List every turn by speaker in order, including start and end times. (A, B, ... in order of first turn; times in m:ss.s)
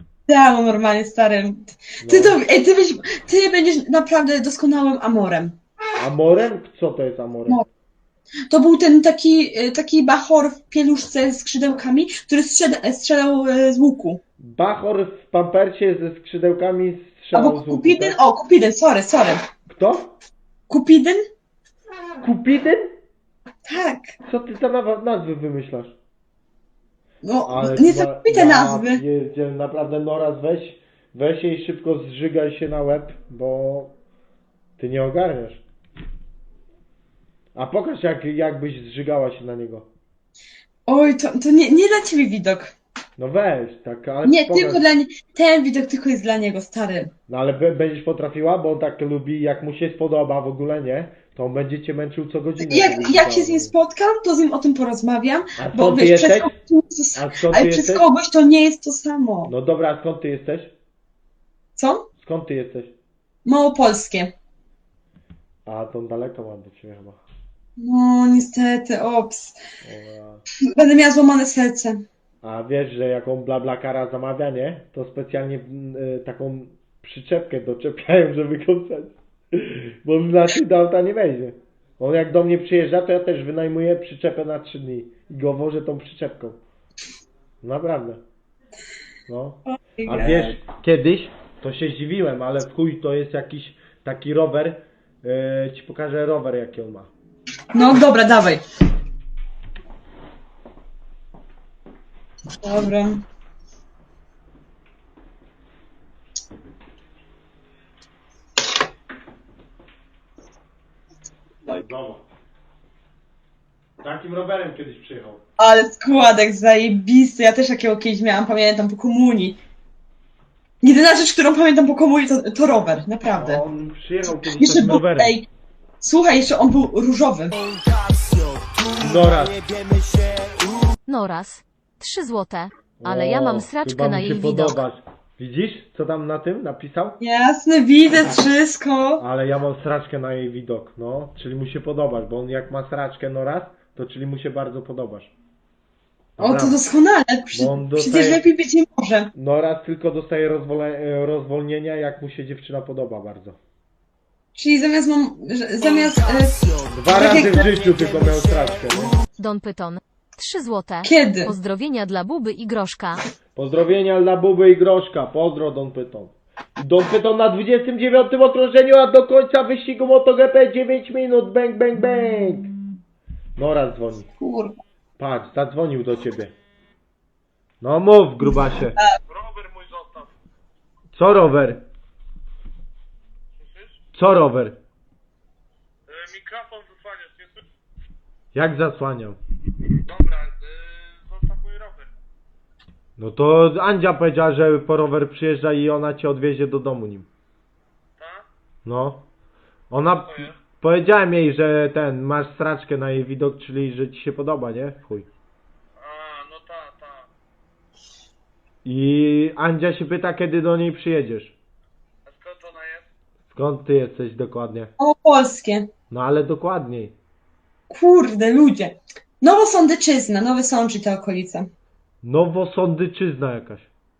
0:00.3-0:05.6 A
0:02.0-0:02.4 B
0:06.0-0:07.6 B
0:08.5-0:14.2 A
0:14.4-0:18.2 B
0:17.3-0:19.4 A
0:19.7-0:20.1 B
0:20.7-0:21.2 A
0:22.2-0:22.9 B
0:23.6-0:24.1 A
0:24.2-0:25.9 B
0:27.2-0:29.0 A
0:27.4-0:33.9 B
0:34.8-0:35.6 B
0:37.5-0:39.9 B
0:40.9-0:42.7 A
0:43.2-0:44.8 B
0:44.2-0:47.1 A
0:47.3-0:53.7 B
0:52.6-0:59.5 A
0:55.6-0:56.5 B
0:57.1-0:58.1 B
0:59.4-1:00.7 B
1:01.8-1:02.1 A
1:02.2-1:02.9 B
1:03.4-1:04.3 A
1:05.6-1:07.2 B
1:07.8-1:09.6 A
1:09.8-1:10.4 B
1:10.6-1:12.0 A
1:12.4-1:26.6 B
1:27.6-1:28.2 B
1:29.3-1:37.1 B
1:29.8-1:30.5 A
1:37.7-1:38.6 A
1:42.6-1:43.2 A
1:51.6-1:52.2 B
1:54.0-1:55.4 B
1:55.6-1:59.6 A
2:00.8-2:03.6 A
2:03.4-2:05.3 B
2:04.6-2:05.5 A
2:06.0-2:07.6 A
2:08.9-2:09.6 B
2:11.1-2:14.8 C
2:13.0-2:17.2 B
2:17.2-2:19.2 A
2:19.2-2:25.3 B
2:26.4-2:26.8 B
2:26.4-2:29.3 A
2:27.5-2:28.4 B
2:29.3-2:33.6 B
2:34.6-2:37.7 A
2:36.9-2:39.2 B
2:39.4-2:43.2 C
2:41.0-2:41.5 A
2:43.6-2:52.7 B
2:53.6-2:54.3 B
2:54.4-2:54.8 A
2:55.2-2:56.5 B
2:57.8-2:59.0 B
2:59.3-3:00.3 D
3:01.1-3:01.8 B
3:03.5-3:04.0 D
3:04.1-3:04.8 B
3:06.1-3:07.7 D
3:08.5-3:09.4 B
3:10.0-3:12.1 D
3:13.2-3:17.3 B
3:18.2-3:18.5 D
3:18.8-3:19.2 B
3:19.9-3:25.3 B
3:20.3-3:20.6 D
3:26.0-3:27.3 D
3:28.8-3:31.6 B
3:32.2-3:33.1 D
3:33.5-3:34.9 B
3:35.0-3:35.9 A
3:36.1-3:37.1 B
3:37.9-3:41.7 A
3:42.2-3:43.9 B